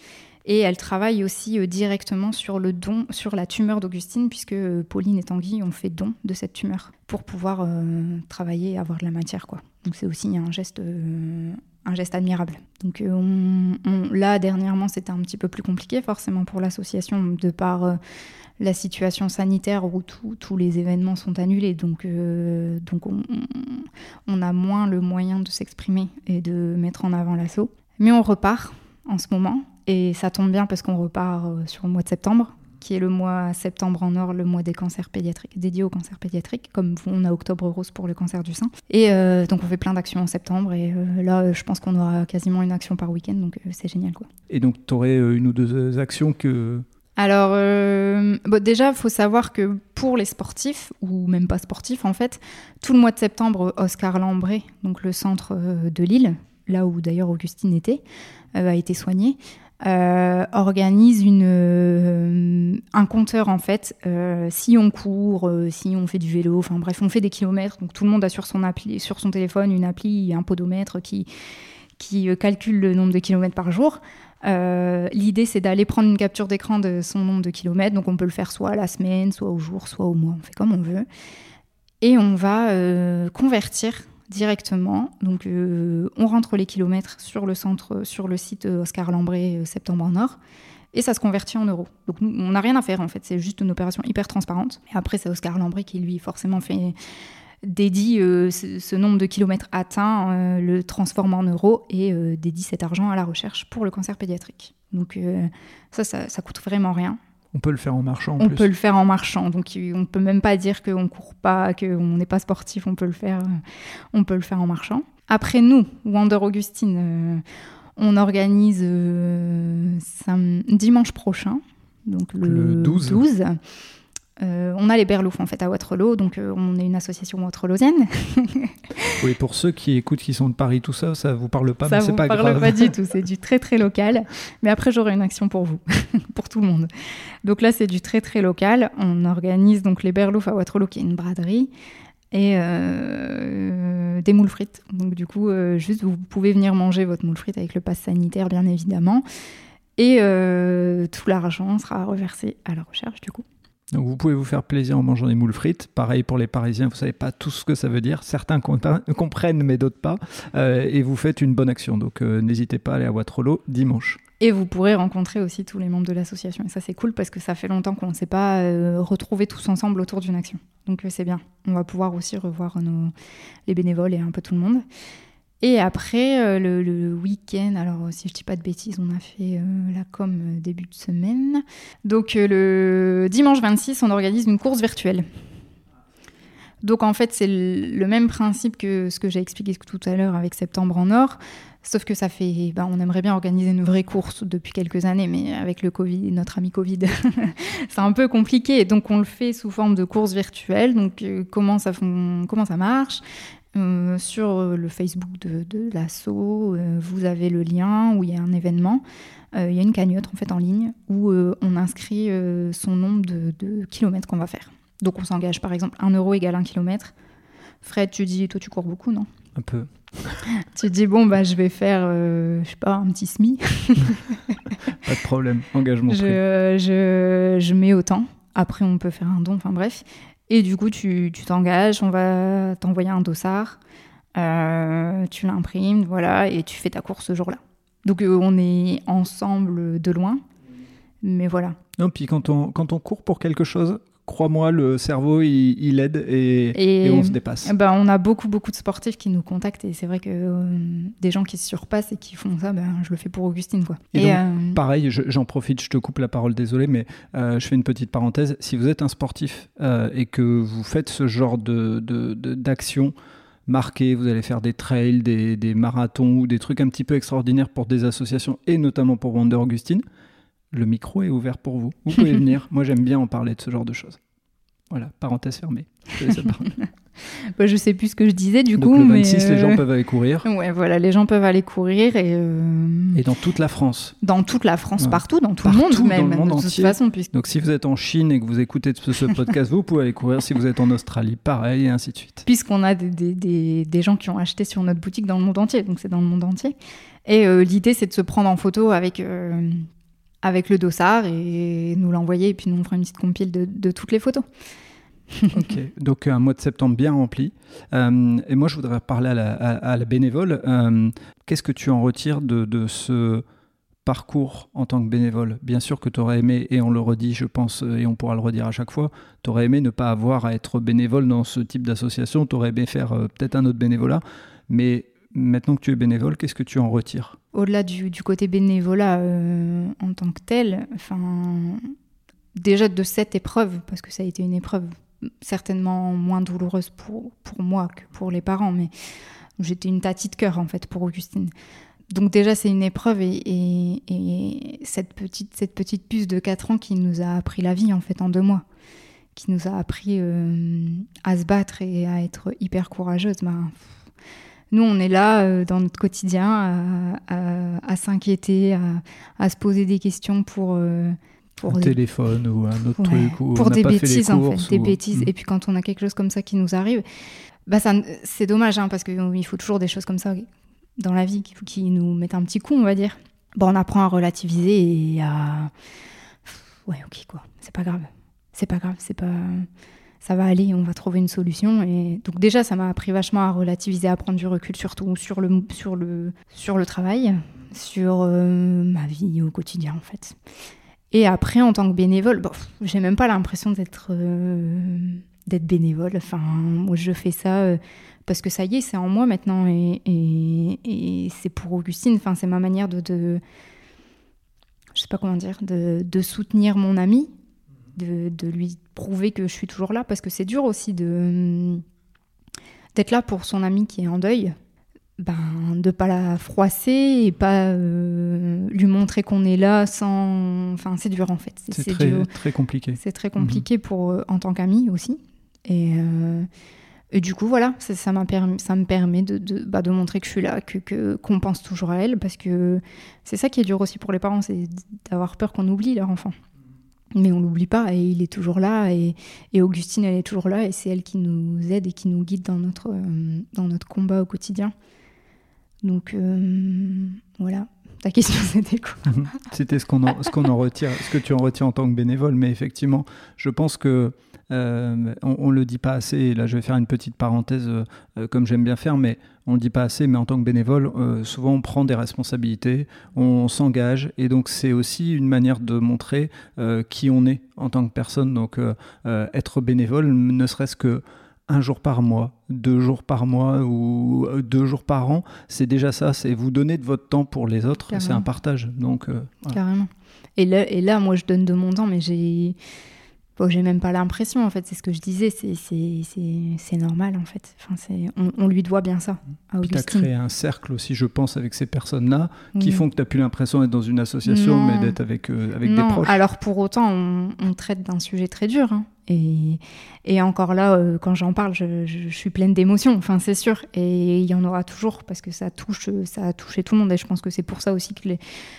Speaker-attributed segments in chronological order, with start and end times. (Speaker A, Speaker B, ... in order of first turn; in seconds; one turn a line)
Speaker A: 0.4-18.0
Speaker A: 18.6-44.3
Speaker B: 44.5-46.8
Speaker A: 47.2-58.0
Speaker A: 58.5-71.3
Speaker A: 72.0-81.0
Speaker A: 82.0-90.4
Speaker A: 90.9-96.9
Speaker A: 97.6-107.2
Speaker B: 107.5-108.7
Speaker A: 108.4-113.6
Speaker A: 114.1-117.4
Speaker A: 118.0-123.6
Speaker B: 122.4-123.2
Speaker A: 124.4-129.2
Speaker B: 129.2-132.9
Speaker A: 131.8-136.9
Speaker A: 137.4-141.7
Speaker A: 142.3-149.2
Speaker A: 150.0-153.4
Speaker B: 153.9-164.2
Speaker A: 164.4-173.1
Speaker A: 173.7-174.8
Speaker A: 175.6-185.2
Speaker A: 186.8-203.2
Speaker A: 203.7-209.0
Speaker A: 209.5-217.1
Speaker A: 217.8-219.3
Speaker B: 219.6-220.4
Speaker A: 220.5-224.8
Speaker B: 224.9-226.4
Speaker A: 226.1-233.8
Speaker A: 234.3-240.4
Speaker A: 241.2-241.8
Speaker B: 242.0-247.7
Speaker A: 246.7-254.8
Speaker B: 254.1-263.1
Speaker B: 263.7-270.0
Speaker B: 270.7-274.2
Speaker B: 274.9-276.7
Speaker A: 276.2-279.8
Speaker B: 278.8-280.5
Speaker A: 280.4-283.2
Speaker B: 283.1-284.1
Speaker A: 284.2-287.3
Speaker B: 285.0-292.4
Speaker A: 292.4-296.7
Speaker A: 297.2-299.9
Speaker A: 300.4-304.4
Speaker A: 305.3-305.7
Speaker B: 305.5-313.4
Speaker B: 314.0-327.4
Speaker A: 327.5-331.9
Speaker A: 332.5-338.9
Speaker A: 339.6-341.5
Speaker A: 342.1-348.6
Speaker A: 349.3-353.9
Speaker A: 354.7-362.0
Speaker B: 361.7-365.3
Speaker A: 363.0-367.0
Speaker A: 367.7-370.4
Speaker A: 371.0-375.7
Speaker A: 376.5-379.7
Speaker A: 380.2-390.4
Speaker A: 391.1-403.4
Speaker A: 404.9-407.3
Speaker A: 407.9-411.8
Speaker A: 412.9-414.6
Speaker A: 415.2-422.3
Speaker B: 421.7-423.6
Speaker A: 423.0-426.5
Speaker A: 427.1-436.4
Speaker A: 437.1-444.7
Speaker A: 445.8-449.3
Speaker B: 449.1-479.6
Speaker A: 477.9-478.2
Speaker A: 479.5-482.6
Speaker A: 483.4-490.1
Speaker B: 489.6-496.2
Speaker A: 492.5-492.8
Speaker A: 494.2-495.0
Speaker A: 495.6-508.2